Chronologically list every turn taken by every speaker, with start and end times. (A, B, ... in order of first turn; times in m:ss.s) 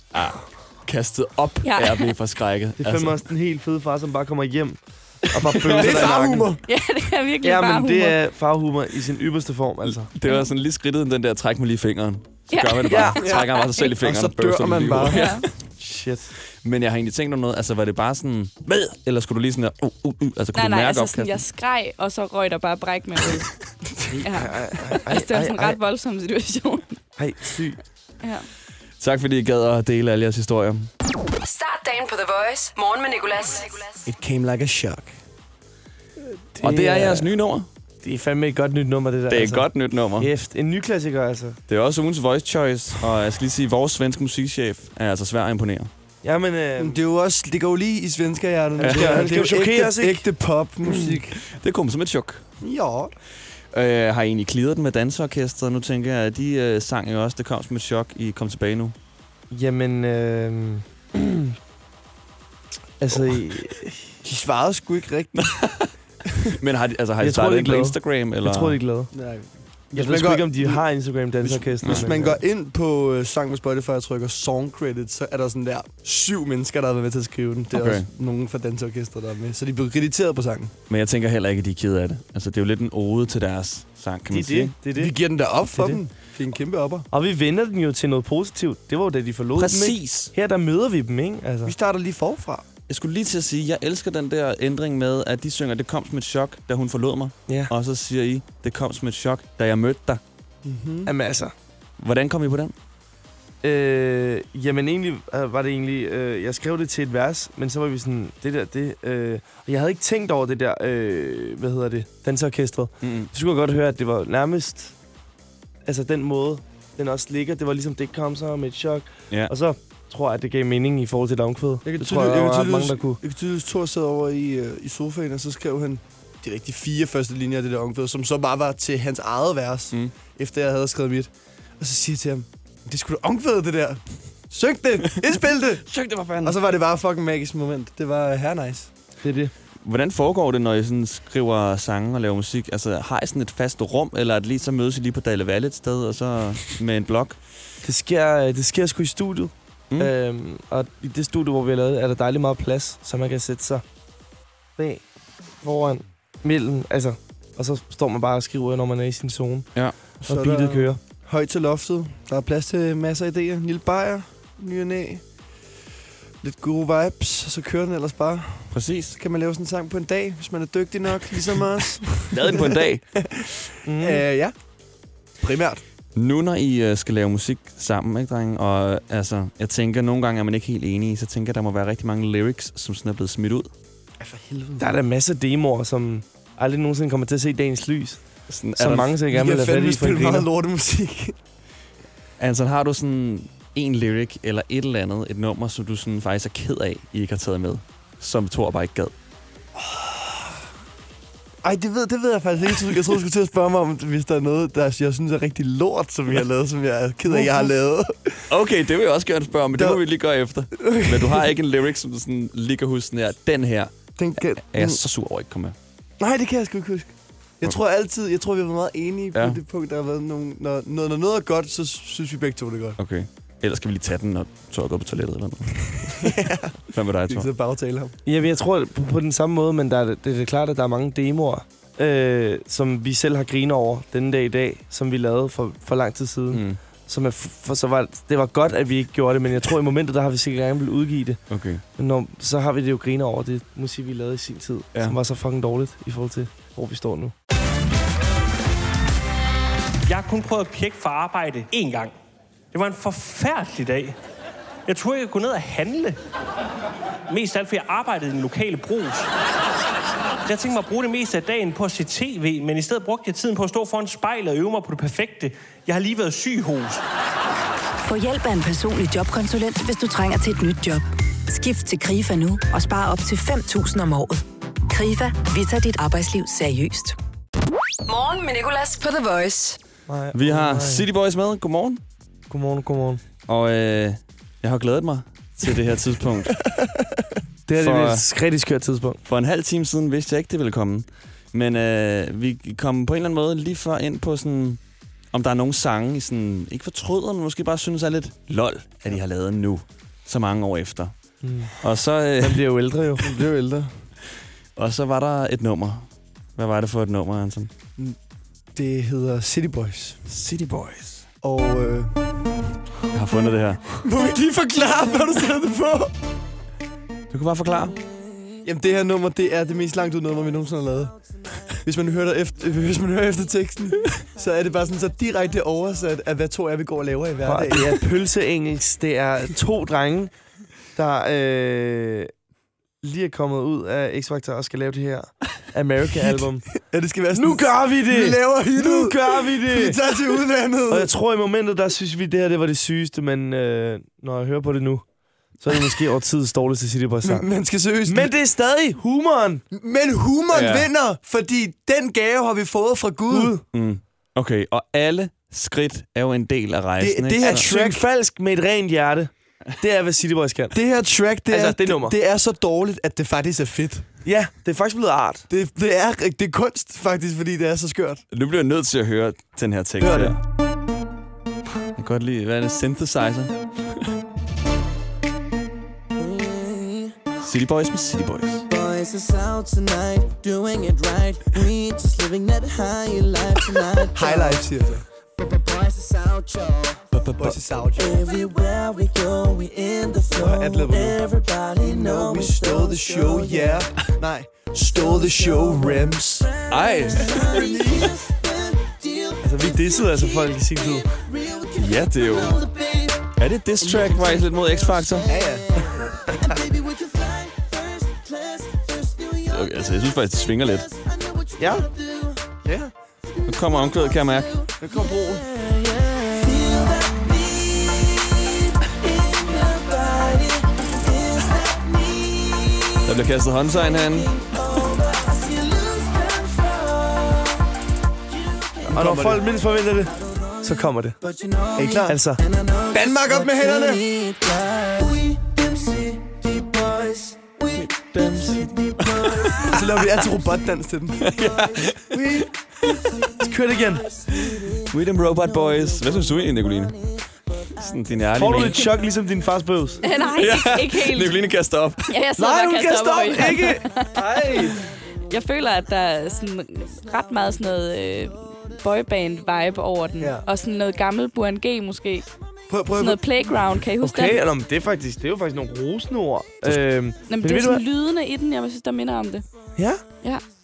0:00.1-0:03.2 A
0:01.6-0:02.1 B
0:02.8-0:06.5 C
0:05.5-0:06.1 A
0:05.7-0:06.6 D
0:06.6-0:08.2 B
0:07.4-0:10.1 C
0:09.8-0:15.5 A
0:10.2-0:10.5 B
0:12.5-0:13.9 B
0:12.9-0:13.2 C
0:13.2-0:15.3 D
0:15.1-0:15.5 B
0:15.8-0:16.3 C
0:16.6-0:21.4 A
0:20.6-0:23.5 B
0:24.1-0:25.8 C
0:24.2-0:27.0 B
0:27.2-0:27.8 C
0:29.0-0:30.9 A
0:31.4-0:34.0 E
0:34.0-0:35.2 D
0:36.6-0:37.3 C
0:36.6-0:37.7 A
0:38.0-0:41.6 C
0:39.3-0:40.3 A
0:41.7-0:45.9 A
0:46.2-0:47.0 C
0:46.8-0:51.4 D
0:48.8-0:49.3 A
0:48.8-0:50.2 C
0:51.4-0:52.4 A
0:52.6-0:53.1 D
0:53.7-0:59.0 A
0:59.5-1:01.6 C
1:03.0-1:04.0 C
1:04.2-1:05.5 D
1:05.3-1:05.9 A
1:06.4-1:08.8 A
1:07.2-1:09.1 C
1:09.1-1:10.8 D
1:10.0-1:12.4 C
1:11.4-1:20.7 D
1:11.8-1:12.1 A
1:17.7-1:18.1 A
1:20.9-1:24.7 A
1:24.3-1:25.1 C
1:25.0-1:27.1 D
1:25.7-1:26.0 C
1:27.1-1:31.8 C
1:29.6-1:30.3 A
1:31.7-1:32.6 D
1:32.9-1:40.2 A
1:40.6-1:41.1 D
1:41.1-1:41.5 C
1:42.0-1:42.8 A
1:43.6-1:55.0 C
1:53.0-1:53.3 A
1:55.9-2:03.2 C
2:01.8-2:15.9 D
2:15.9-2:16.6 A
2:16.4-2:18.9 D
2:19.2-2:19.5 C
2:19.8-2:27.4 A
2:27.8-2:33.8 C
2:34.8-2:35.0 C
2:35.6-2:39.7 C
2:40.2-2:41.0 C
2:40.2-2:45.2 D
2:46.4-2:54.5 D
2:48.7-2:49.2 A
2:52.3-2:53.0 A
2:53.8-2:54.2 C
2:55.4-2:55.8 D
2:56.2-3:03.7 A
3:04.2-3:04.9 D
3:04.8-3:08.2 C
3:08.5-3:09.2 A
3:08.8-3:10.5 C
3:09.3-3:11.4 D
3:12.4-3:19.1 A
3:19.8-3:20.4 D
3:21.6-3:28.5 D
3:28.5-3:35.8 A
3:29.7-3:30.0 D
3:30.8-3:31.5 D
3:34.2-3:35.0 D
3:36.2-3:37.1 D
3:37.6-3:43.0 D
3:39.3-3:39.6 A
3:43.0-3:46.3 A
3:46.1-3:48.2 D
3:46.9-3:47.5 A
3:48.3-4:01.4 C
3:56.5-3:56.8 A
4:01.5-4:01.8 A
4:02.0-4:07.3 C
4:10.1-4:12.2 F
4:12.7-4:14.2 F
4:14.9-4:16.2 F
4:17.3-4:19.3 F
4:20.5-4:27.0 F
4:28.0-4:37.2 G
4:38.1-4:39.8 E
4:40.1-4:41.1 C
4:40.3-4:42.0 A
4:42.5-4:43.2 C
4:43.5-4:46.6 A
4:47.7-4:49.2 C
4:47.8-4:48.2 A
4:49.3-4:54.8 A
4:55.3-5:01.1 A
5:01.4-5:01.7 C
5:01.8-5:02.7 A
5:02.4-5:03.3 C
5:03.2-5:04.0 D
5:04.8-5:07.7 A
5:08.8-5:10.2 D
5:10.3-5:11.3 A
5:11.4-5:12.2 D
5:13.1-5:14.0 A
5:14.0-5:16.1 D
5:17.3-5:18.0 A
5:18.6-5:21.2 D
5:21.8-5:28.0 D
5:27.4-5:30.3 C
5:31.0-5:32.3 C
5:33.0-5:36.7 C
5:36.2-5:41.1 D
5:37.3-5:40.0 C
5:40.9-5:45.1 C
5:45.6-5:47.5 C
5:47.2-5:48.3 D
5:48.1-5:49.6 C
5:49.7-5:53.6 D
5:50.5-5:50.9 A
5:53.3-5:53.6 C
5:53.7-5:57.7 A
5:57.0-5:58.0 D
5:57.4-6:00.8 C
6:00.7-6:04.1 D
6:01.5-6:02.2 C
6:04.2-6:05.5 C
6:05.5-6:08.2 D
6:08.3-6:10.4 A
6:10.0-6:10.4 C
6:12.0-6:14.1 A
6:16.1-6:17.2 H
6:17.4-6:18.6 A
6:18.7-6:24.6 H
6:24.2-6:25.0 D
6:25.4-6:27.1 H
6:27.1-6:27.6 A
6:27.4-6:28.3 D
6:27.9-6:33.9 H
6:30.4-6:31.2 D
6:31.8-6:36.5 D
6:34.9-6:43.3 H
6:36.7-6:37.6 A
6:37.4-6:38.1 D
6:39.4-6:41.1 C
6:41.8-6:42.6 A
6:43.4-6:45.3 A
6:43.9-6:52.6 H
6:45.3-6:45.9 D
6:49.5-6:50.9 A
6:51.6-6:51.9 C
6:52.6-6:52.9 D
6:53.3-7:03.2 H
6:53.5-6:54.6 A
7:03.0-7:04.3 A
7:03.8-7:07.7 H
7:08.3-7:09.1 H
7:08.9-7:11.2 C
7:08.9-7:09.4 D
7:09.6-7:20.7 H
7:11.8-7:12.2 D
7:12.1-7:12.4 C
7:12.9-7:14.2 D
7:17.8-7:19.8 A
7:19.6-7:21.4 D
7:21.2-7:22.2 A
7:21.4-7:21.9 H
7:21.9-7:22.5 D
7:23.0-7:27.8 H
7:23.4-7:24.1 C
7:24.9-7:27.0 A
7:27.7-7:28.9 A
7:28.4-7:30.0 C
7:30.0-7:31.4 B
7:30.4-7:32.2 A
7:32.1-7:34.7 B
7:32.4-7:34.8 D
7:35.3-7:42.3 B
7:40.2-7:40.4 D
7:42.7-7:43.2 D
7:42.9-7:44.4 B
7:44.0-7:47.8 C
7:47.3-7:49.4 B
7:49.8-7:50.0 C